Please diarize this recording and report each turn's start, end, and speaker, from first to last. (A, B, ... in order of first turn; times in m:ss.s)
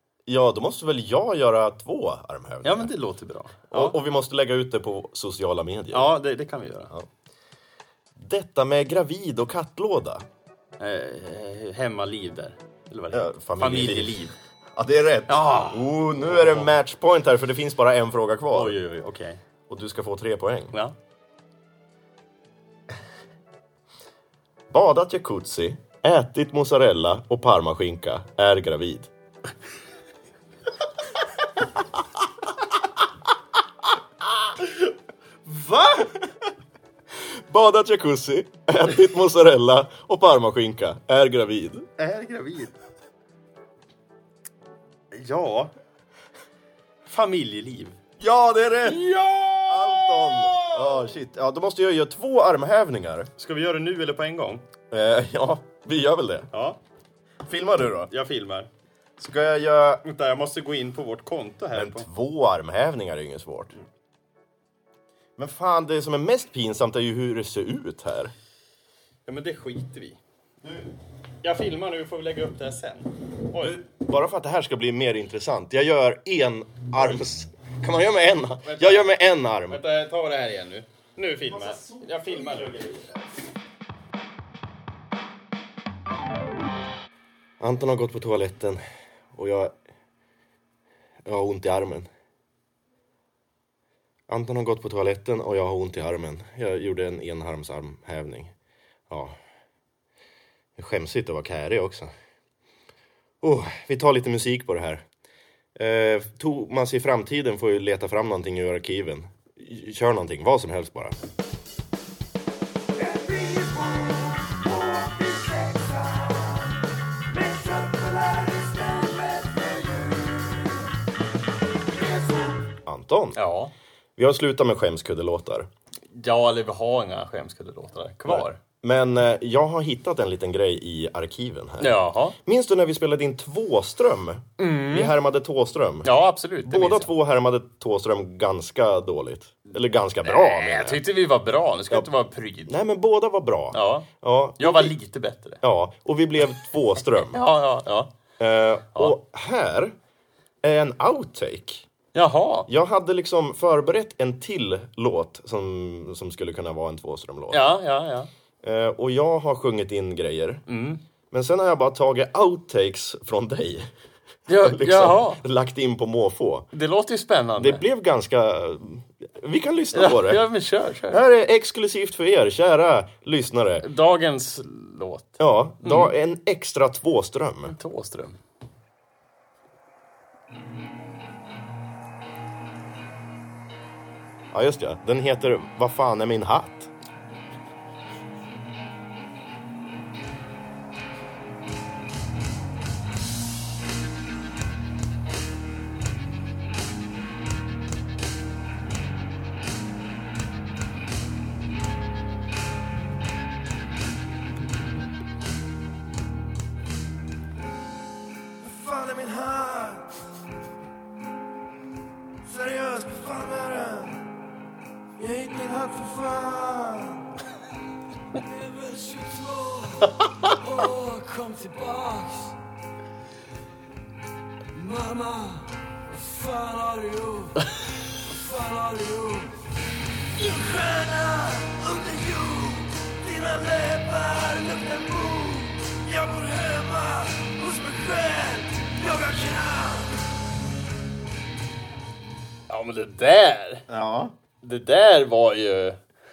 0:00.3-0:02.9 A
0:02.6-0:04.0 B
0:03.7-0:06.2 A
0:05.9-0:06.9 B
0:08.2-0:10.2 A
0:10.8-0:14.3 B
0:13.1-0:18.8 A
0:15.3-0:16.8 B
0:18.5-0:19.4 B
0:19.7-0:20.7 A
0:24.7-0:29.1 A
0:35.5-0:36.2 B
0:37.2-0:41.9 A
0:42.0-0:42.8 B
0:45.1-0:45.7 B
0:47.0-0:48.0 B
0:48.2-0:49.1 A
0:49.1-0:49.7 C
0:49.1-0:49.5 B
0:49.7-0:53.3 A
0:53.4-0:54.6 B
0:54.9-0:56.5 A
0:56.5-0:56.8 B
0:57.4-0:58.1 A
0:58.1-0:58.7 B
0:59.2-1:00.0 A
1:00.0-1:02.1 B
1:01.7-1:03.8 A
1:05.4-1:08.3 A
1:09.3-1:10.2 B
1:11.4-1:13.8 B
1:13.6-1:19.8 A
1:18.6-1:19.1 B
1:19.7-1:23.1 B
1:21.6-1:22.9 A
1:27.6-1:28.8 A
1:29.3-1:29.8 A
1:31.2-1:32.1 A
1:34.3-1:38.5 A
1:39.1-1:39.4 A
1:40.8-1:42.1 A
1:43.4-1:45.0 A
1:45.8-1:51.2 A
1:53.0-1:56.6 C
1:57.3-2:00.8 C
2:01.9-2:02.6 C
2:02.9-2:03.4 A
2:03.4-2:03.7 B
2:04.2-2:05.7 A
2:06.1-2:08.6 B
2:08.3-2:16.1 A
2:11.8-2:12.4 B
2:14.6-2:15.2 B
2:16.0-2:17.1 B
2:16.6-2:21.0 A
2:20.2-2:22.8 B
2:22.7-2:25.0 A
2:23.7-2:24.1 B
2:24.6-2:25.6 B
2:25.6-2:27.4 A
2:27.3-2:28.1 B
2:28.4-2:30.0 A
2:30.6-2:31.9 A
2:32.1-2:32.7 B
2:32.7-2:37.7 A
2:37.5-2:38.3 B
2:38.6-2:40.6 A
2:40.7-2:41.0 B
2:41.3-2:43.9 A
2:44.5-2:45.4 B
2:44.6-2:46.7 A
2:46.7-2:47.8 B
2:47.6-2:50.4 A
2:49.9-2:51.2 B
2:51.1-2:53.9 A
2:53.8-2:56.1 B
2:55.4-2:57.8 A
2:57.7-2:58.4 B
3:04.5-3:06.9 A
3:28.6-3:30.1 C
3:32.5-3:34.2 C
3:35.2-3:37.2 C
3:38.3-3:42.6 C
3:44.7-3:49.6 C
3:50.4-4:00.2 C
4:02.7-4:03.8 B
4:03.9-4:04.3 A
4:04.6-4:06.0 B